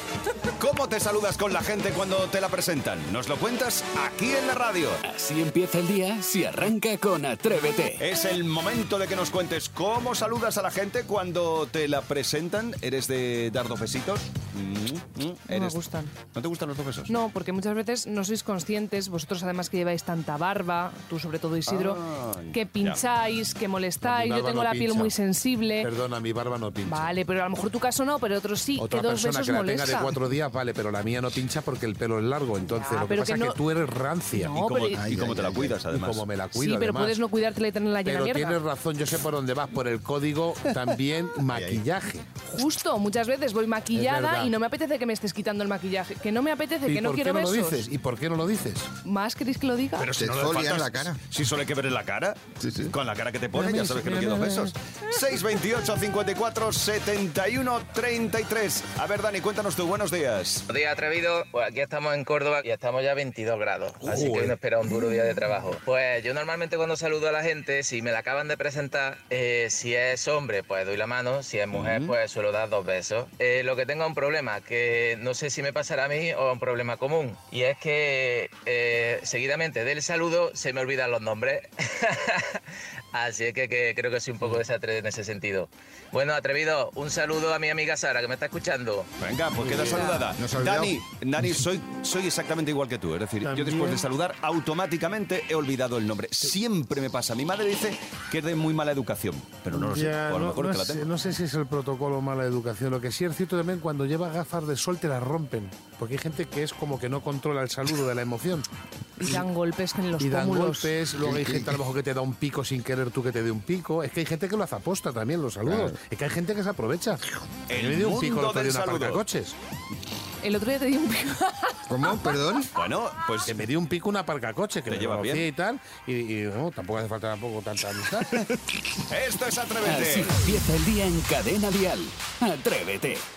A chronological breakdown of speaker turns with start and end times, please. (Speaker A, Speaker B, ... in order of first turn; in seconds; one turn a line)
Speaker A: 0.6-5.0
Speaker B: 5.0-8.0
Speaker A: 8.0-15.8
Speaker C: 15.5-16.1
Speaker A: 16.3-17.1
Speaker C: 17.1-25.9
Speaker A: 21.7-23.0
Speaker D: 24.0-25.1
Speaker D: 25.8-27.1
Speaker C: 26.9-30.1
Speaker D: 28.8-34.6
Speaker C: 32.8-33.6
Speaker C: 34.3-35.0
Speaker A: 34.5-36.2
Speaker E: 35.0-35.8
Speaker D: 35.9-37.2
Speaker C: 36.5-38.6
Speaker D: 38.0-42.3
Speaker C: 42.5-47.8
Speaker D: 43.9-44.5
Speaker D: 46.9-48.9
Speaker C: 49.0-50.1
Speaker A: 50.0-60.7
Speaker E: 50.2-51.2
Speaker E: 52.6-52.9
Speaker D: 53.5-54.8
Speaker F: 60.7-82.6
Speaker A: 64.0-64.6
Speaker A: 71.7-72.2
Speaker F: 83.1-89.1
Speaker A: 89.2-101.1
Speaker E: 90.4-91.0
Speaker D: 93.4-94.0
Speaker D: 99.7-108.7
Speaker C: 109.2-110.9
Speaker D: 110.2-119.6
Speaker E: 111.2-111.8
Speaker A: 117.7-119.2
Speaker C: 120.4-121.8
Speaker E: 121.9-122.7
Speaker A: 122.8-123.6
Speaker D: 123.5-128.5
Speaker A: 124.9-125.5
Speaker A: 129.1-130.4
Speaker B: 129.8-133.2